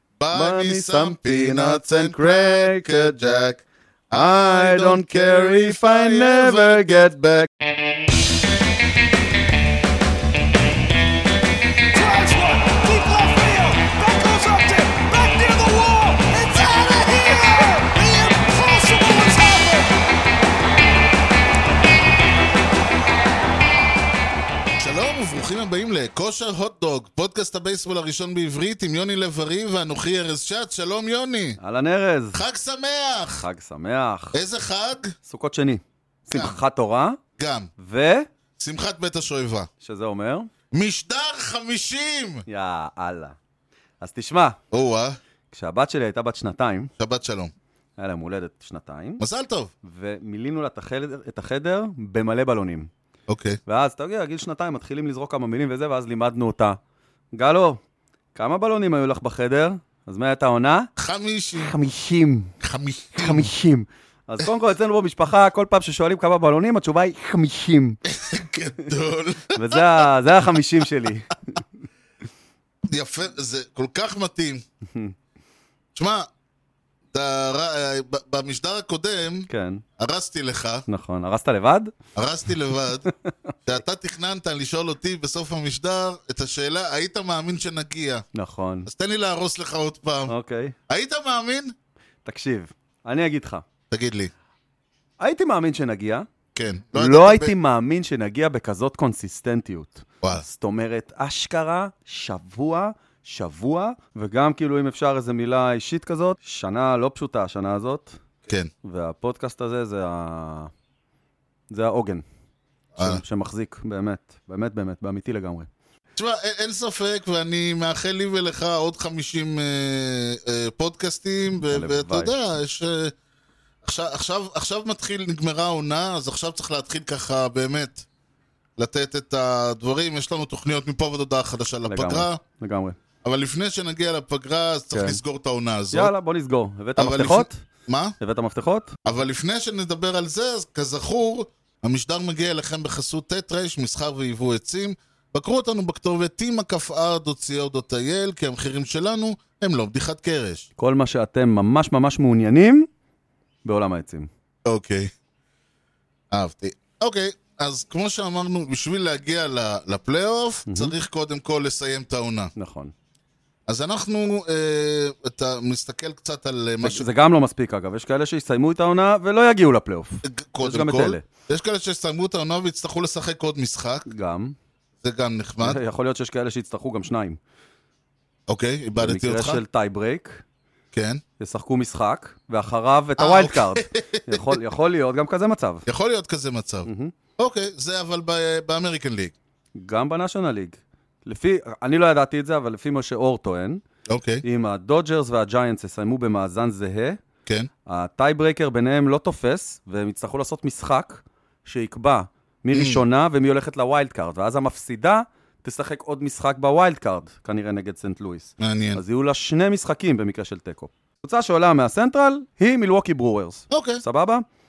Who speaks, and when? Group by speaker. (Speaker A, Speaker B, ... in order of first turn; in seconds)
Speaker A: 0.2-7.5, 16.5-17.4, 24.8-31.6, 32.3-33.4, 34.3-35.1, 37.4-37.7, 38.6-39.7, 40.7-42.5, 44.7-45.2, 47.0-47.5, 49.2-49.7, 53.3-53.6, 61.0-61.7, 62.6-63.5, 68.0-70.0, 72.9-74.6, 75.9-76.3, 77.1-80.8, 82.1-83.1, 83.7-88.2, 88.8-90.3, 90.9-91.7, 93.9-94.3, 96.5-97.5, 112.9-113.2, 116.2-123.1, 123.8-128.1, 128.8-132.4, 133.2-136.1, 137.0-138.2, 139.1-150.7, 154.7-155.1, 156.3-162.5, 163.7-167.1, 170.2-174.1, 175.0-175.8, 178.5-179.6, 180.9-181.2, 183.2-184.5, 185.9-189.3, 194.1-194.4, 202.7-203.0, 208.6-209.0, 213.7-214.0
Speaker B: 0.3-3.2, 4.1-7.5, 31.6-32.4, 33.4-34.4, 35.2-37.2, 37.8-38.3, 39.8-40.5, 42.5-43.4, 44.0-44.6, 45.5-46.9, 48.0-49.2, 49.8-52.9, 53.7-56.8, 57.3-57.8, 58.3-60.9, 61.6-62.5, 63.2-68.0, 69.5-71.6, 79.5-79.8, 80.9-81.9, 88.3-88.9, 90.3-90.8, 92.2-93.6, 95.2-96.3, 96.9-108.2, 108.8-110.7, 111.7-112.2, 113.0-115.7, 121.7-122.3, 131.9-133.0, 134.9-135.2, 135.9-137.6, 138.2-138.9, 150.8-152.9, 153.7-154.3, 160.7-160.9, 162.6-162.9, 166.8-171.2, 174.1-174.6, 175.6-177.4, 179.0-180.4, 181.4-185.9, 186.8-187.1, 189.8-193.8, 194.4-197.2, 197.9-214.4
Speaker C: 11.9-19.9